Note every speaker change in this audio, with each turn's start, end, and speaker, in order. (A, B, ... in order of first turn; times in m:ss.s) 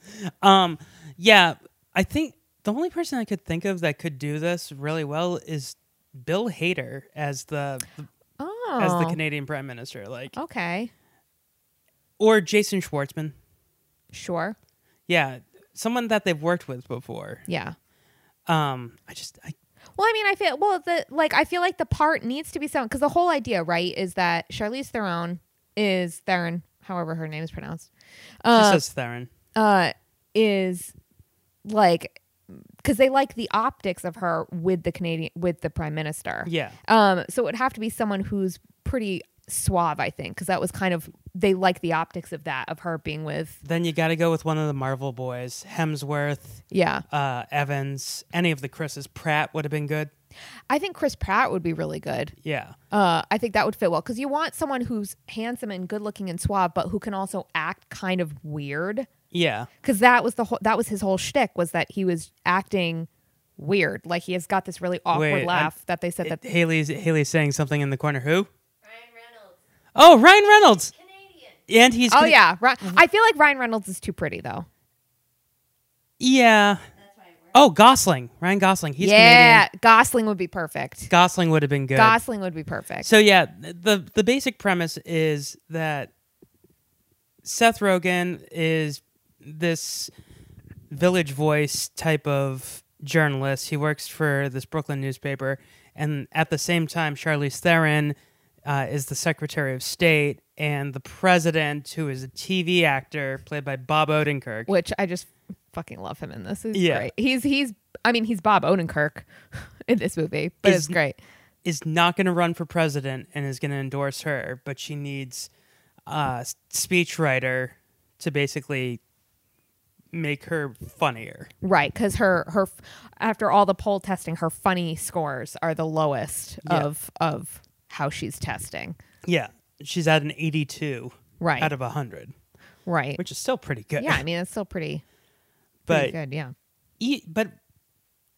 0:00.2-0:08.0 A
0:08.4-0:09.2 B
0:08.8-0:10.4 A
0:10.3-0:10.9 B
0:12.2-0:13.3 A
0:14.1-0:14.6 B
0:15.1-0:17.4 A
0:17.5-0:17.8 B
0:18.5-0:19.5 A
0:20.0-0:27.9 B
0:28.4-0:28.8 B
0:28.5-0:29.3 A
0:29.5-0:30.9 B
0:31.6-0:32.2 B
0:32.8-0:43.6 B
0:36.4-0:36.8 A
0:43.6-0:50.1 A
0:46.7-0:47.0 B
0:50.7-0:52.3 B
0:52.4-0:52.7 A
0:52.9-0:59.1 B
0:59.3-0:59.7 A
0:59.8-1:06.4 B
1:05.1-1:08.5 A
1:08.8-1:09.6 C
1:09.9-1:10.9 A
1:10.3-1:11.6 C
1:11.7-1:12.4 A
1:12.1-1:14.7 B
1:16.2-1:16.8 A
1:16.9-1:17.6 C
1:17.5-1:19.6 A
1:19.0-1:21.1 B
1:21.1-1:22.2 A
1:21.9-1:23.1 B
1:23.0-1:26.1 A
1:27.4-1:30.1 A
1:30.9-1:44.7 A
1:44.7-1:51.2 B
1:46.7-1:47.1 A
1:50.6-1:51.0 A
1:51.6-1:55.5 A
1:56.1-1:59.0 A
2:00.1-2:01.5 A
2:01.6-2:09.0 B
2:09.2-2:12.3 A
2:11.4-2:11.7 B
2:12.9-2:13.2 B
2:13.2-2:14.2 A
2:14.0-2:15.0 B
2:15.9-2:16.2 A
2:15.9-2:16.5 B
2:17.0-2:17.5 A